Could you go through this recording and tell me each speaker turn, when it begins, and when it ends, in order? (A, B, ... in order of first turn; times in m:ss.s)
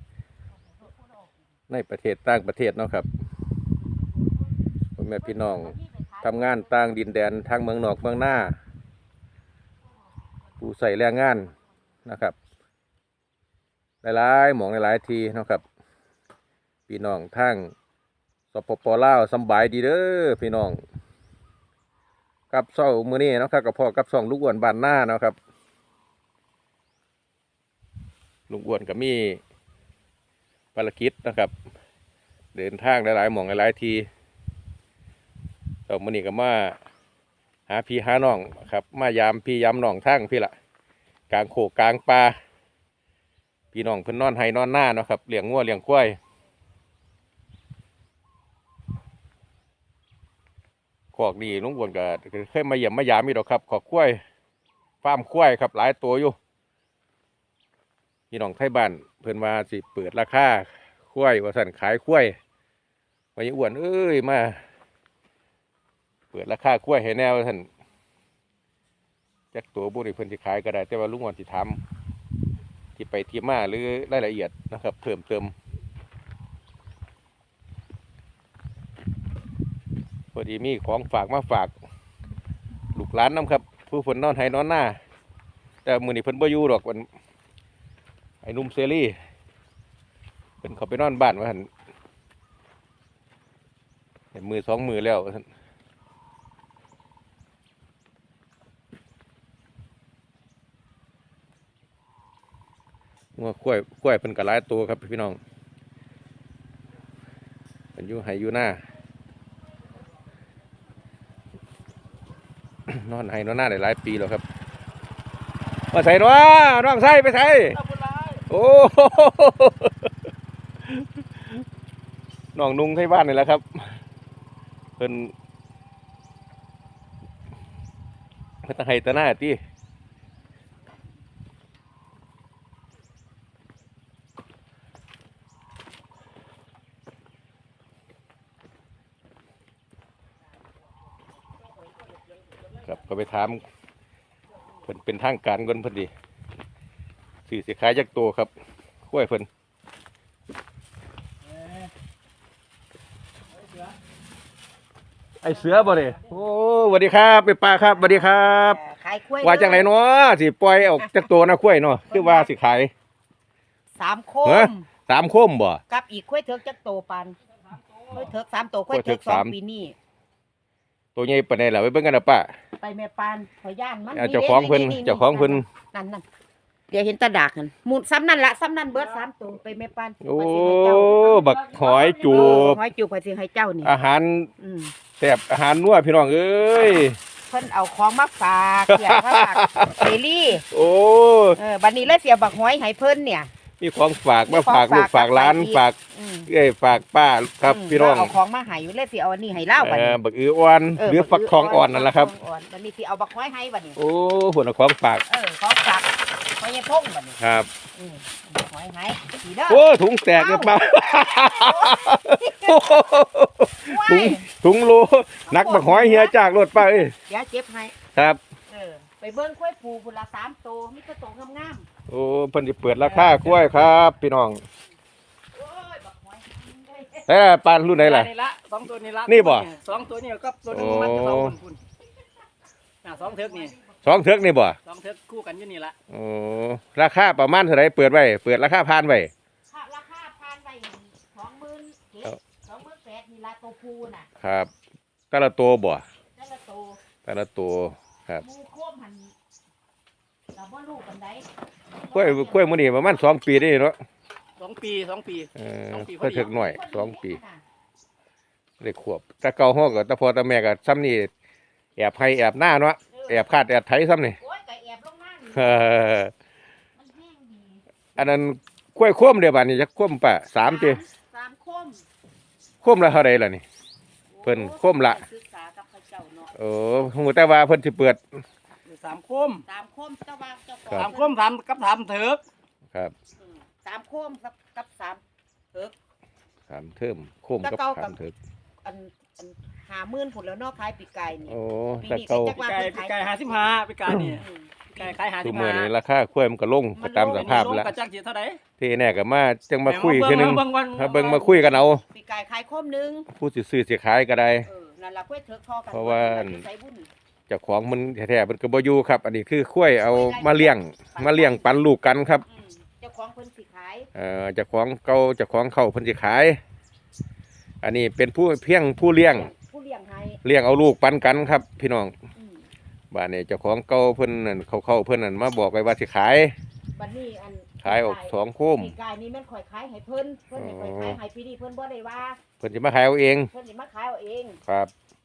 0:00.8-0:01.4 A
0:01.7-0:03.1 B
0:05.0-0:08.6 B
0:05.2-0:06.8 A
0:10.6-0:11.5 B
0:12.1-0:12.4 B
0:14.0-0:15.6 B
0:16.9-0:17.7 B
0:18.5-0:20.8 B
0:22.5-0:25.4 B
0:28.5-0:29.4 B
0:30.8-0:31.5 B
0:32.6-0:34.1 B
0:35.9-0:36.8 B
0:37.7-0:40.5 B
0:41.3-0:42.4 B
0:43.7-0:46.2 B
0:51.2-0:54.2 B
0:55.0-0:56.4 B
0:58.3-1:02.4 B
1:03.4-1:04.6 B
1:06.3-1:07.7 B
1:09.5-1:11.8 B
1:13.0-1:15.5 B
1:20.3-1:21.7 B
1:23.0-1:25.0 B
1:25.8-1:27.1 B
1:28.4-1:29.2 B
1:30.6-1:31.7 B
1:34.3-1:35.5 B
1:43.4-1:45.4 B
1:48.0-1:48.8 B
1:52.9-1:54.4 B
1:55.9-1:57.8 B
1:57.7-1:58.4 C
1:58.5-2:00.1 B
2:00.8-2:01.6 B
2:02.6-2:04.0 B
2:05.0-2:05.3 B
2:08.6-2:09.6 B
2:22.8-2:23.6 B
2:24.8-2:26.1 B
2:27.5-2:28.5 B
2:29.1-2:29.5 B
2:35.4-2:38.8 B
2:35.7-2:36.0 C
2:37.8-2:39.9 A
2:39.4-2:42.9 B
2:42.1-2:42.5 A
2:44.0-2:44.9 A
2:44.4-2:45.8 B
2:45.9-2:47.4 A
2:47.7-2:48.2 C
2:48.1-2:50.0 A
2:48.9-2:49.5 B
2:51.2-2:52.5 B
2:52.8-2:56.2 A
2:54.1-2:55.7 B
2:56.9-3:03.9 A
3:00.2-3:02.8 B
3:03.8-3:04.5 B
3:04.6-3:04.9 A
3:05.2-3:07.2 B
3:07.5-3:10.6 A
3:08.9-3:10.1 B
3:10.6-3:11.6 B
3:11.6-3:13.5 A
3:13.8-3:16.0 B
3:14.5-3:16.5 A
3:16.5-3:18.4 B
3:17.6-3:20.2 A
3:19.8-3:22.3 B
3:21.0-3:24.0 A
3:24.0-3:25.2 B
3:25.3-3:27.4 A
3:27.4-3:27.7 B
3:28.0-3:32.8 A
3:29.7-3:37.2 B
3:33.8-3:34.5 A
3:35.5-3:38.0 A
3:38.1-3:38.4 B
3:38.7-3:41.9 A
3:42.1-3:44.6 B
3:43.1-3:43.8 C
3:45.5-3:47.4 A
3:47.3-3:48.3 B
3:48.0-3:51.8 C
3:49.3-3:49.7 B
3:50.7-3:51.6 B
3:53.0-3:53.8 C
3:53.2-3:54.0 A
3:54.0-3:54.8 B
3:54.8-3:56.0 C
3:56.1-3:59.3 B
3:59.7-4:04.3 A
4:04.4-4:04.7 B
4:05.3-4:06.0 B
4:06.4-4:07.0 A
4:07.2-4:08.4 B
4:08.4-4:09.3 A
4:10.5-4:11.5 A
4:12.0-4:13.2 A
4:12.1-4:14.0 B
4:14.6-4:16.5 C
4:15.6-4:17.4 B
4:16.4-4:17.6 A
4:18.8-4:21.3 B
4:22.0-4:24.4 B
4:23.1-4:23.4 A
4:24.4-4:25.9 A
4:25.5-4:26.3 B
4:27.0-4:27.8 A
4:28.2-4:31.0 B
4:30.6-4:32.0 A
4:32.8-4:33.6 B
4:34.3-4:36.5 A
4:34.4-4:35.2 B
4:36.6-4:38.4 B
4:38.9-4:39.6 C
4:39.7-4:41.4 A
4:40.9-4:42.4 C
4:43.4-4:45.2 A
4:46.7-4:48.4 B
4:47.6-4:48.2 A
4:48.8-4:53.6 A
4:51.5-4:52.6 B
4:52.6-4:55.9 C
4:54.4-4:55.2 A
4:55.4-4:57.9 B
4:57.0-4:57.7 A
4:57.2-4:58.6 C
4:58.8-5:02.0 B
4:59.9-5:01.7 C
5:02.0-5:03.3 A
5:03.3-5:04.7 B
5:04.7-5:07.1 A
5:05.9-5:06.6 B
5:07.5-5:12.4 B
5:10.1-5:11.7 A
5:12.5-5:14.1 A
5:14.2-5:16.6 B
5:17.8-5:19.5 B
5:19.3-5:20.4 A
5:20.4-5:22.1 B
5:22.4-5:22.7 A
5:23.1-5:26.5 B
5:27.0-5:32.4 A
5:27.8-5:29.0 B
5:30.6-5:31.2 B
5:32.6-5:33.5 B
5:33.5-5:34.6 A
5:34.7-5:34.9 B